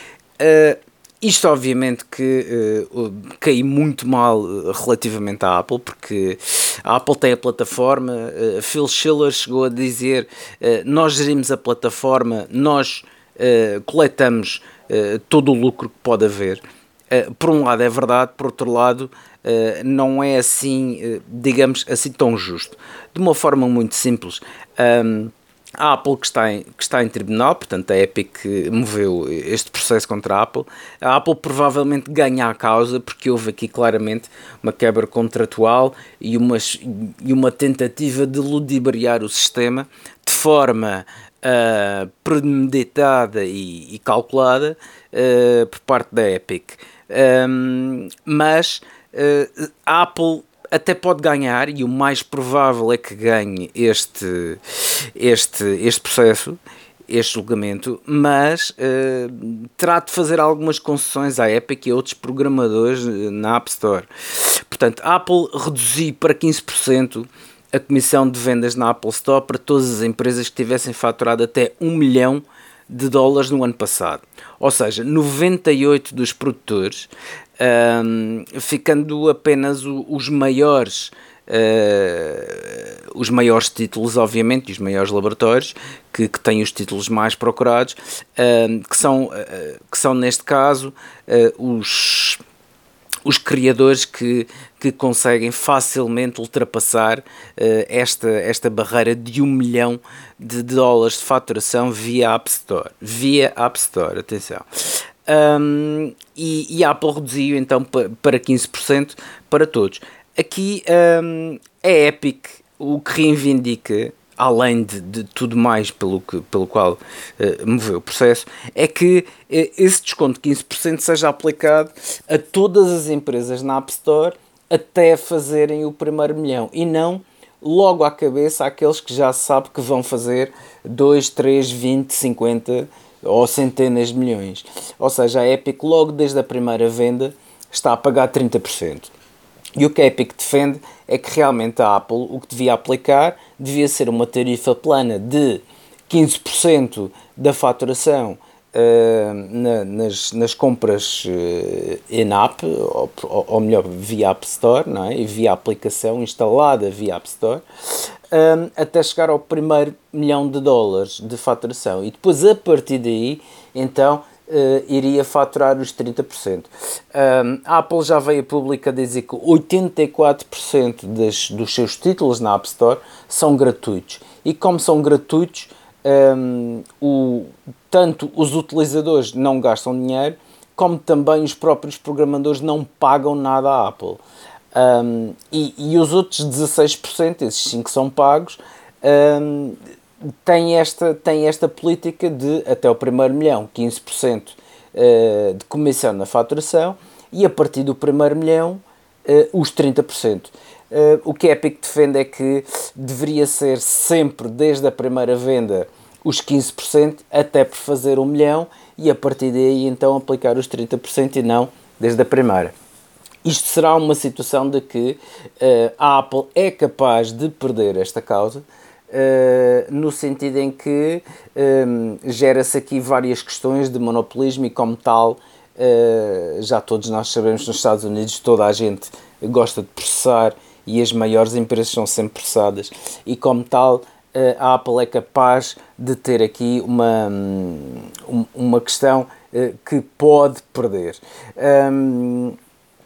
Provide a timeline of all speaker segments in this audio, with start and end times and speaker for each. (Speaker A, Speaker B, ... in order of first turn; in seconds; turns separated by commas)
Speaker A: 0.4-92.4, Speaker A: 93.2-139.1, Speaker A: 139.8-184.2, Speaker A: 184.8-212.7, Speaker A: 213.4-242.6